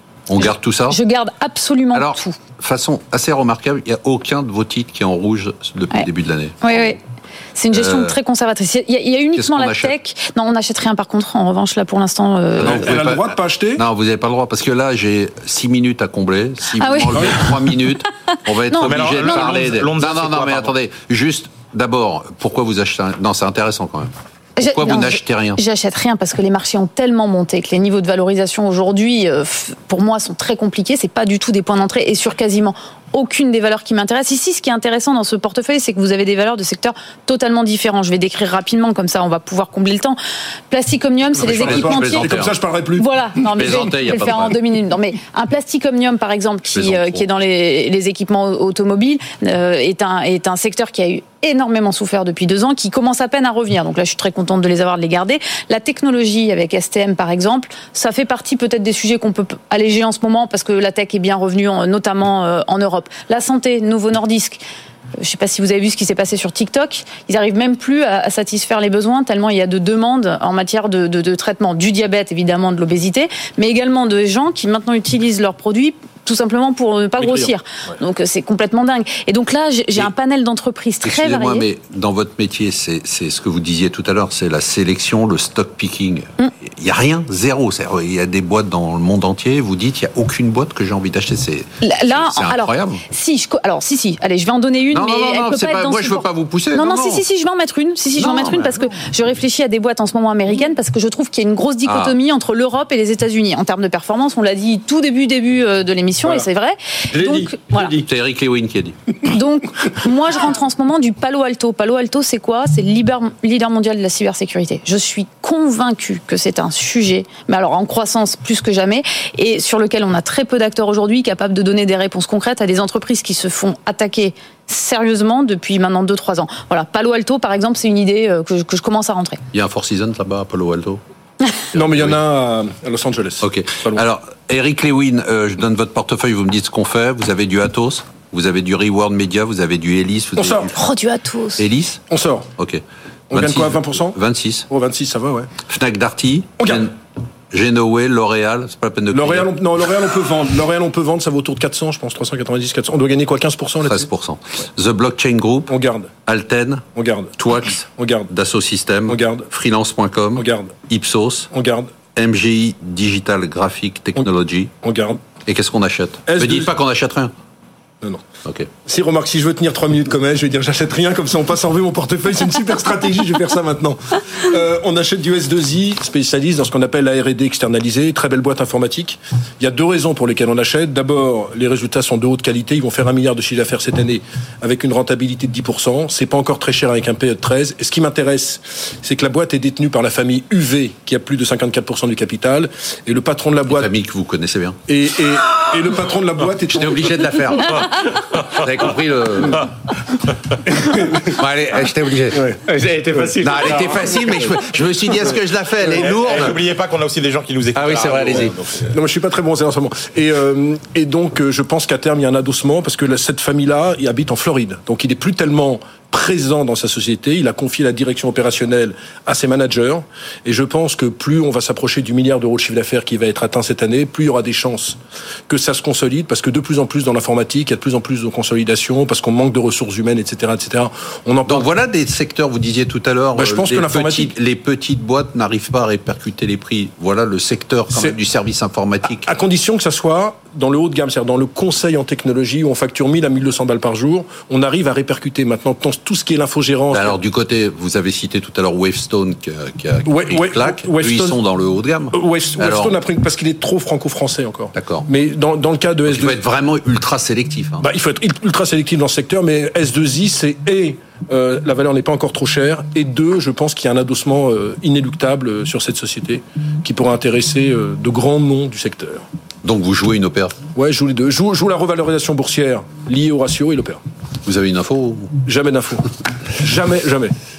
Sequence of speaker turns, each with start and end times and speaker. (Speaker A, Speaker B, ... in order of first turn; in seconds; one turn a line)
Speaker A: 0.3-1.0
Speaker B: 0.9-2.4
Speaker A: 1.9-7.0
Speaker B: 6.6-7.0
Speaker B: 7.6-12.9
Speaker A: 7.7-8.2
Speaker A: 9.4-9.9
Speaker A: 12.6-25.6
Speaker C: 12.6-13.8
Speaker B: 16.8-17.8
Speaker B: 18.3-19.5
Speaker D: 18.8-20.7
Speaker B: 24.6-40.2
Speaker B: 40.7-42.3
Speaker A: 41.4-42.5
Speaker C: 41.6-43.1
Speaker B: 43.0-64.6
Speaker A: 43.6-44.5
Speaker A: 46.7-47.2
Speaker B: 65.2-81.7
Speaker C: 77.2-77.5
Speaker A: 81.0-93.0
Speaker B: 91.8-107.9
Speaker A: 94.9-97.2
Speaker A: 98.2-98.8
Speaker A: 101.8-102.1
Speaker D: 107.1-107.9
Speaker A: 107.9-109.2
Speaker B: 109.3-129.4
Speaker A: 129.5-131.0
Speaker A: 131.7-132.2
Speaker C: 131.7-134.1
Speaker A: 133.4-140.8
Speaker C: 140.4-140.7
Speaker B: 140.7-141.6
Speaker A: 141.6-142.0
Speaker C: 142.1-142.5
Speaker A: 142.6-144.7
Speaker C: 143.3-144.2
Speaker C: 144.7-145.5
Speaker A: 145.7-146.9
Speaker C: 146.6-146.9
Speaker A: 147.5-149.5
Speaker C: 149.1-154.1
Speaker A: 153.8-155.7
Speaker C: 155.7-156.1
Speaker A: 156.3-156.8
Speaker C: 156.9-158.3
Speaker A: 157.4-161.5
Speaker C: 159.1-159.5
Speaker C: 160.3-160.7
Speaker C: 161.5-161.9
Speaker A: 162.2-164.7
Speaker C: 164.8-165.2
Speaker A: 165.5-167.3
Speaker C: 166.3-166.7
Speaker C: 168.9-193.9
Speaker A: 193.7-194.8
Speaker C: 194.9-197.3
Speaker A: 196.7-199.7
Speaker A: 201.1-202.6
Speaker D: 202.6-204.5
Speaker A: 203.4-206.6
Speaker D: 205.8-208.7
Speaker A: 207.8-208.6
Speaker C: 208.8-225.0
Speaker C: 225.5-231.7
Speaker A: 231.5-239.3
Speaker C: 233.4-234.3
Speaker C: 239.0-247.2
Speaker A: 246.9-252.9
Speaker C: 250.1-251.4
Speaker C: 252.1-256.4
Speaker A: 254.8-255.1
Speaker A: 256.1-257.9
Speaker C: 257.8-269.2
Speaker A: 269.6-270.6
Speaker C: 270.8-274.0
Speaker A: 274.4-275.3
Speaker C: 275.4-277.3